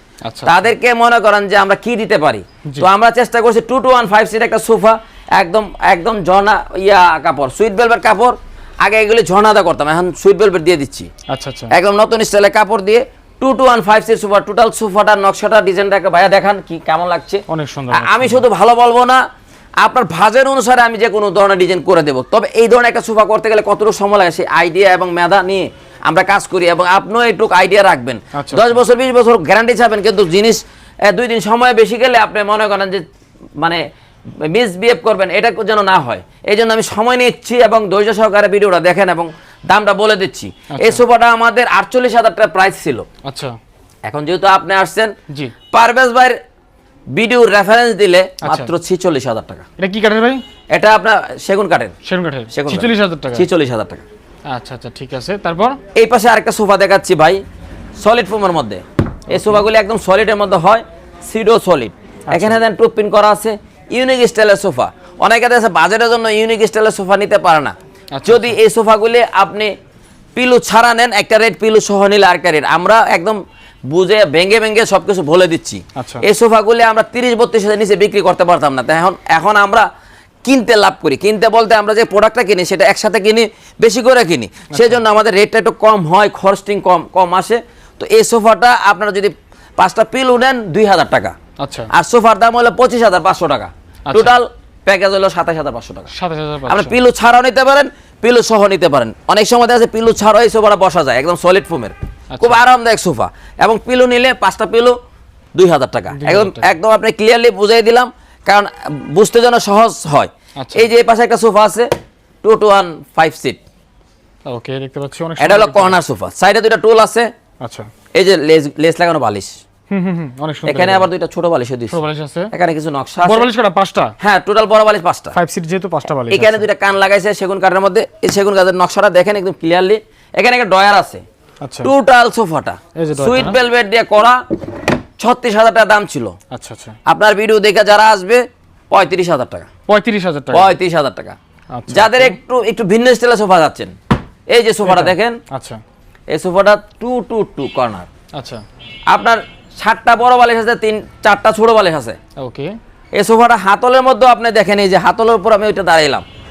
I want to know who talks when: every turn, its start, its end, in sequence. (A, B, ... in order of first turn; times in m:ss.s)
0:00.2-0:00.6 A
0:00.4-0:11.1 B
0:11.3-0:11.7 A
0:11.7-0:19.2 B
0:17.5-0:18.4 A
0:19.8-0:33.0 B
0:28.4-0:28.8 A
0:34.4-0:43.0 B
0:40.7-0:41.0 A
0:43.2-0:43.5 A
0:44.1-0:45.1 B
0:45.7-0:46.4 B
0:47.1-0:49.6 B
0:48.4-0:48.7 A
0:49.8-0:50.4 A
0:50.7-0:51.9 B
0:52.0-0:53.4 A
0:52.5-0:54.0 B
0:54.5-0:55.8 A
0:55.9-0:57.4 B
0:58.0-1:07.7 B
0:59.3-0:59.6 A
1:02.3-1:02.6 A
1:08.1-1:08.6 A
1:08.2-1:09.7 B
1:10.4-1:19.9 B
1:16.0-1:16.2 A
1:20.4-1:31.3 B
1:24.7-1:25.0 A
1:31.6-1:31.9 A
1:31.9-1:36.1 B
1:34.1-1:34.3 A
1:36.1-1:36.9 A
1:36.7-1:44.9 B
1:42.3-1:42.6 A
1:45.5-1:51.9 B
1:46.1-1:46.7 A
1:50.6-1:50.9 A
1:52.4-1:53.6 B
1:54.5-1:55.9 A
1:55.4-1:57.3 B
1:57.6-1:57.9 A
1:58.2-1:59.5 B
1:59.9-2:01.0 A
2:00.6-2:02.0 B
2:01.9-2:02.5 A
2:02.5-2:03.5 B
2:03.2-2:04.1 A
2:04.2-2:05.3 B
2:05.3-2:06.6 A
2:06.3-2:11.2 B
2:11.6-2:11.9 A
2:11.8-2:14.4 B
2:13.0-2:13.6 A
2:15.2-2:16.3 B
2:16.5-2:17.0 A
2:17.0-2:19.7 B
2:19.9-2:20.7 A
2:20.5-2:21.4 B
2:21.7-2:22.3 A
2:21.9-2:23.9 B
2:24.5-2:25.4 B
2:24.8-2:25.8 A
2:26.3-2:28.1 B
2:28.4-2:28.6 A
2:29.1-2:32.2 B
2:32.4-2:32.7 A
2:33.1-2:36.2 B